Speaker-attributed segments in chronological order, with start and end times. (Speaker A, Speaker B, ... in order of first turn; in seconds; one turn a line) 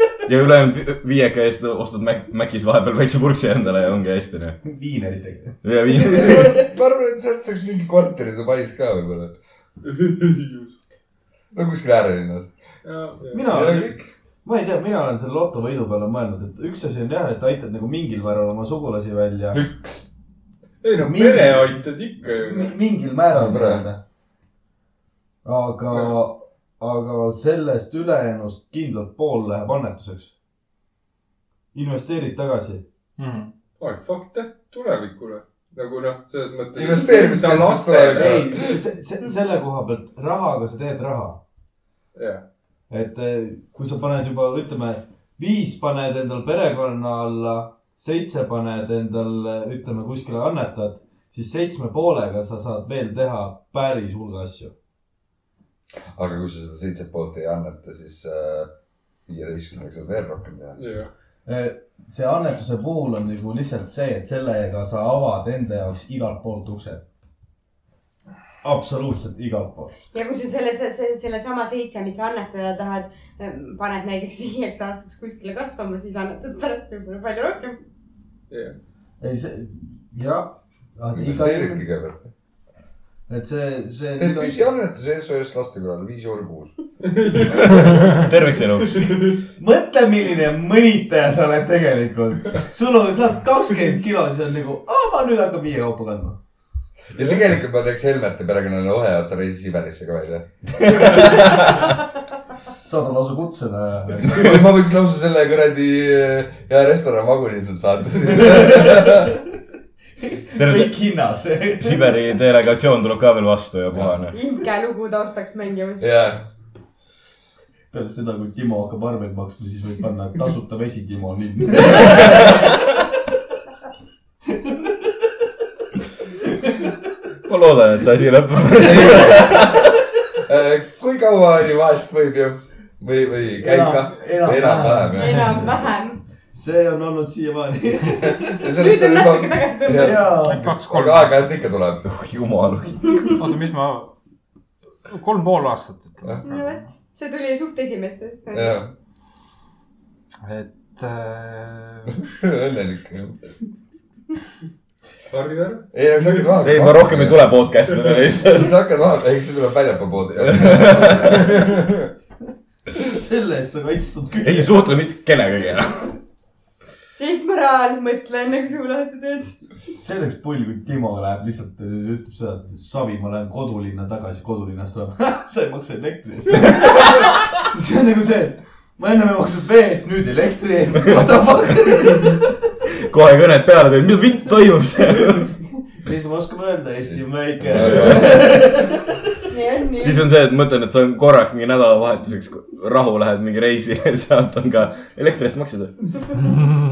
Speaker A: 0.3-4.6
Speaker B: 4.6-6.5
Speaker A: 5.6-6.6
Speaker C: 5.9-9.4
Speaker D: 9.8-10.7
Speaker C: 11.5-12.6
Speaker D: 12.8-13.5
Speaker B: 13.3-19.6
Speaker C: 13.5-14.1
Speaker D: 20.8-22.8
Speaker B: 21.0-24.0
Speaker C: 23.3-23.9
Speaker B: 25.4-30.3
Speaker D: 25.9-26.2
Speaker B: 31.7-32.8
Speaker E: 33.2-33.5
Speaker D: 33.8-38.5
Speaker C: 36.8-38.7
Speaker B: 38.1-41.4
Speaker D: 42.1-42.5
Speaker B: 42.9-54.7
Speaker C: 56.1-58.7
Speaker C: 59.3-60.8
Speaker D: 60.8-61.1
Speaker B: 61.5-67.0
Speaker B: 68.6-69.9
Speaker F: 70.1-77.8
Speaker D: 78.5-78.8
Speaker B: 79.2-81.8
Speaker C: 81.1-82.3
Speaker B: 83.3-84.7
Speaker C: 84.2-86.8
Speaker D: 87.0-87.7
Speaker C: 87.6-88.2
Speaker A: 88.0-89.2
Speaker D: 88.9-89.4
Speaker B: 89.6-96.4
Speaker C: 97.1-101.4
Speaker A: 100.9-101.8
Speaker B: 102.8-104.7
Speaker C: 104.2-109.4
Speaker B: 108.3-109.4
Speaker B: 110.2-112.2
Speaker A: 110.6-110.9
Speaker A: 111.8-114.3
Speaker F: 114.3-116.2
Speaker C: 116.0-116.5
Speaker B: 117.9-122.7
Speaker A: 127.5-129.9
Speaker C: 128.8-129.8
Speaker C: 130.4-135.7
Speaker B: 133.6-135.7
Speaker F: 135.2-136.2
Speaker B: 136.5-138.6
Speaker C: 138.2-142.1
Speaker F: 138.5-140.4
Speaker B: 140.0-140.7
Speaker E: 140.4-141.6
Speaker A: 142.1-143.3
Speaker E: 143.3-144.2
Speaker E: 145.1-146.9
Speaker F: 146.4-148.8
Speaker C: 148.5-148.9
Speaker E: 150.4-152.2
Speaker C: 152.2-153.4
Speaker D: 155.3-155.9
Speaker C: 155.9-157.7
Speaker A: 156.6-158.8
Speaker C: 158.4-162.1
Speaker A: 160.4-161.5
Speaker B: 163.0-164.9
Speaker A: 164.4-166.1
Speaker F: 167.2-169.6
Speaker B: 170.0-182.5
Speaker A: 183.0-185.6
Speaker B: 186.0-189.2
Speaker C: 187.1-188.5
Speaker A: 187.8-188.3
Speaker F: 189.5-190.2
Speaker A: 190.0-195.9